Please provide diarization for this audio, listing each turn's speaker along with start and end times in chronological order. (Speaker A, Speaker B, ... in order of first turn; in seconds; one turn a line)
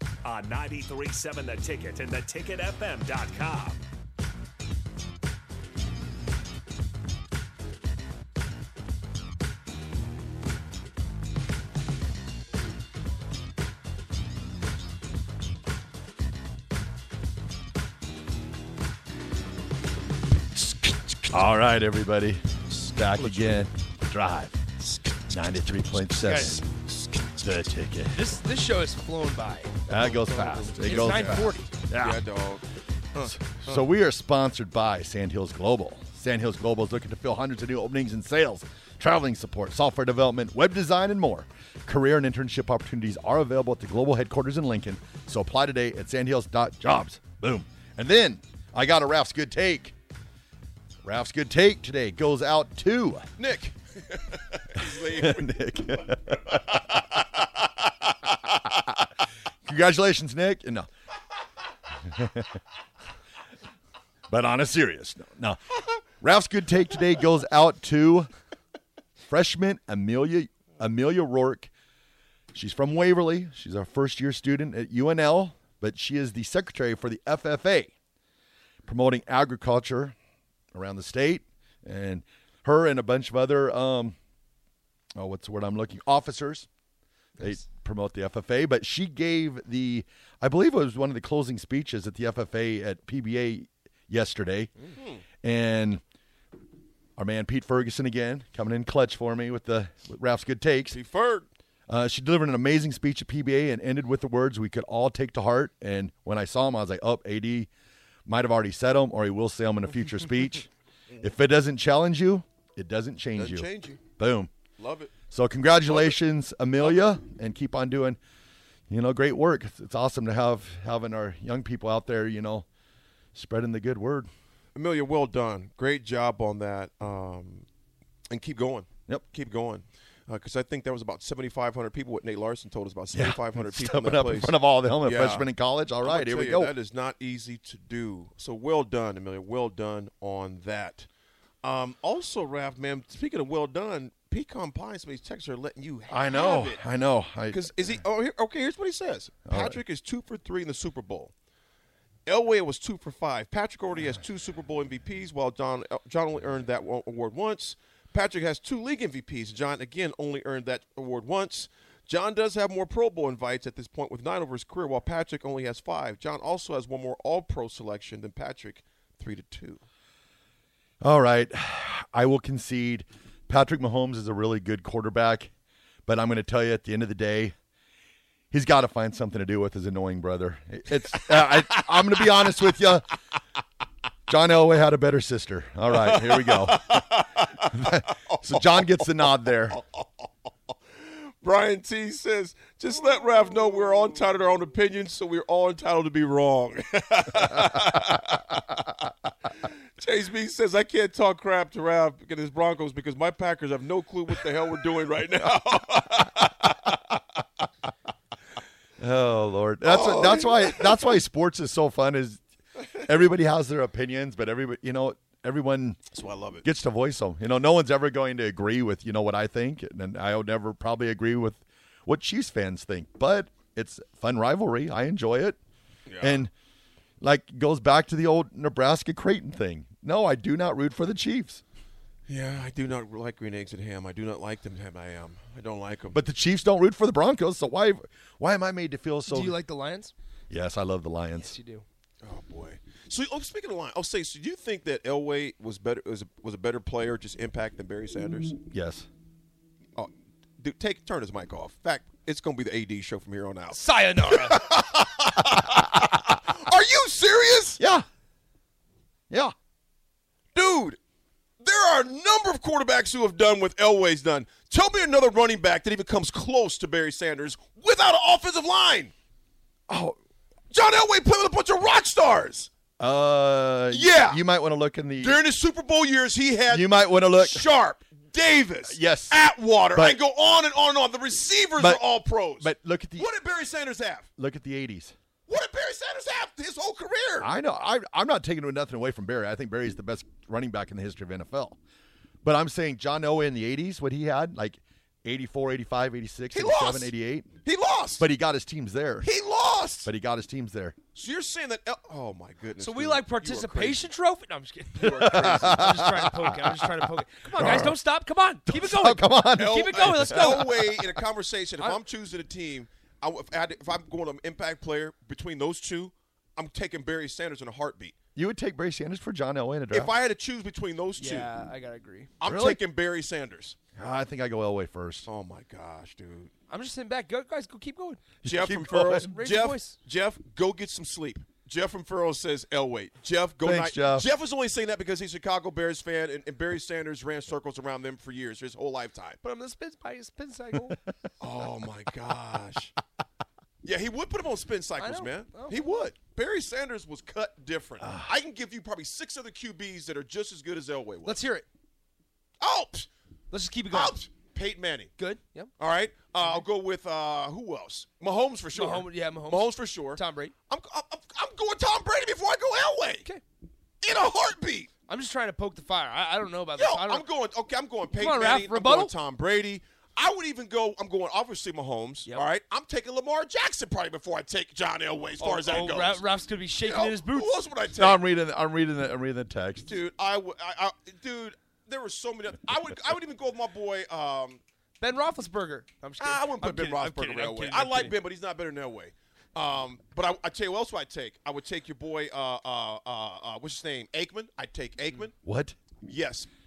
Speaker A: 0.2-3.8
Speaker B: 21.3-24.6
Speaker C: 23.1-23.6
Speaker B: 25.3-26.7
Speaker D: 26.2-26.6
Speaker B: 27.2-28.2
Speaker D: 28.1-29.7
Speaker B: 29.9-32.2
Speaker C: 29.9-32.6
Speaker D: 30.8-31.7
Speaker C: 33.1-33.7
Speaker B: 33.1-50.0
Speaker B: 51.0-53.2
Speaker C: 53.4-55.6
Speaker B: 55.0-56.9
Speaker C: 56.5-58.1
Speaker B: 59.6-60.9
Speaker B: 62.1-62.5
Speaker B: 64.3-65.6
Speaker B: 66.2-68.3
Speaker B: 69.3-71.7
Speaker B: 72.5-77.9
Speaker B: 78.8-80.2
Speaker B: 80.7-84.2
Speaker B: 85.2-86.7
Speaker B: 87.4-94.7
Speaker C: 94.9-95.2
Speaker B: 95.4-96.0
Speaker B: 97.2-101.0
Speaker C: 100.9-101.5
Speaker B: 101.9-107.7
Speaker B: 108.3-110.7
Speaker B: 111.2-114.5
Speaker C: 113.4-114.0
Speaker C: 114.8-115.2
Speaker B: 115.3-118.2
Speaker C: 115.8-116.2
Speaker C: 116.8-117.1
Speaker B: 118.9-122.7
Speaker B: 123.3-124.3
Speaker C: 124.8-127.7
Speaker C: 128.3-135.5
Speaker B: 133.1-136.7
Speaker C: 136.0-141.1
Speaker C: 141.6-146.8
Speaker B: 146.1-147.7
Speaker C: 147.5-151.3
Speaker B: 149.5-149.8
Speaker C: 152.2-169.8
Speaker B: 171.0-175.5
Speaker B: 176.1-177.6
Speaker B: 178.5-183.1
Speaker C: 181.2-182.5
Speaker B: 184.3-186.9
Speaker C: 185.9-190.1
Speaker B: 187.7-189.8
Speaker C: 191.4-198.9
Speaker C: 200.0-207.2
Speaker B: 209.0-216.0
Speaker C: 209.8-211.2
Speaker C: 216.1-216.7
Speaker B: 216.6-225.6
Speaker C: 226.1-226.5
Speaker B: 226.2-226.5
Speaker B: 227.2-231.6
Speaker C: 232.3-236.2
Speaker B: 236.1-239.6
Speaker D: 239.3-240.1
Speaker B: 240.5-241.5
Speaker D: 241.3-241.8
Speaker C: 242.2-248.6
Speaker B: 248.6-249.1
Speaker C: 250.0-257.8
Speaker D: 253.7-254.6
Speaker B: 257.8-258.0
Speaker C: 260.5-261.0
Speaker C: 261.6-269.1
Speaker B: 269.9-270.1
Speaker C: 270.7-272.7
Speaker B: 273.0-275.4
Speaker C: 273.9-274.4
Speaker C: 275.2-284.3
Speaker B: 276.7-277.7
Speaker B: 278.9-279.4
Speaker B: 279.9-280.2
Speaker B: 282.6-283.3
Speaker B: 284.4-285.1
Speaker C: 285.5-287.5
Speaker B: 287.4-291.8
Speaker B: 292.4-297.5
Speaker C: 296.5-298.3
Speaker B: 298.2-299.3
Speaker C: 299.2-300.1
Speaker B: 300.0-300.9
Speaker C: 301.1-304.1
Speaker D: 302.8-311.0
Speaker C: 305.0-305.9
Speaker B: 305.0-306.9
Speaker B: 307.5-308.0
Speaker B: 308.7-310.9
Speaker C: 309.6-318.1
Speaker B: 318.3-320.1
Speaker C: 319.9-321.5
Speaker D: 321.2-322.3
Speaker C: 322.4-323.8
Speaker B: 322.4-322.8
Speaker B: 323.9-325.3
Speaker C: 325.2-326.5
Speaker D: 326.7-328.2
Speaker B: 328.4-329.3
Speaker C: 328.4-339.4
Speaker D: 329.2-330.0
Speaker B: 333.6-334.3
Speaker D: 339.4-341.0
Speaker C: 341.4-342.9
Speaker C: 343.8-351.4
Speaker D: 345.0-345.9
Speaker B: 348.0-348.3
Speaker D: 351.2-351.6
Speaker C: 352.6-353.1
Speaker D: 353.5-354.2
Speaker C: 353.9-355.1
Speaker D: 355.2-355.7
Speaker C: 355.8-363.3
Speaker D: 358.7-360.5
Speaker C: 364.0-364.9
Speaker D: 365.1-367.2
Speaker C: 366.8-376.2
Speaker D: 368.1-369.1
Speaker D: 375.4-377.5
Speaker C: 376.8-378.2
Speaker B: 377.9-379.9
Speaker C: 379.8-384.6
Speaker D: 385.0-388.1
Speaker C: 386.2-395.4
Speaker B: 395.4-395.8
Speaker C: 396.1-396.5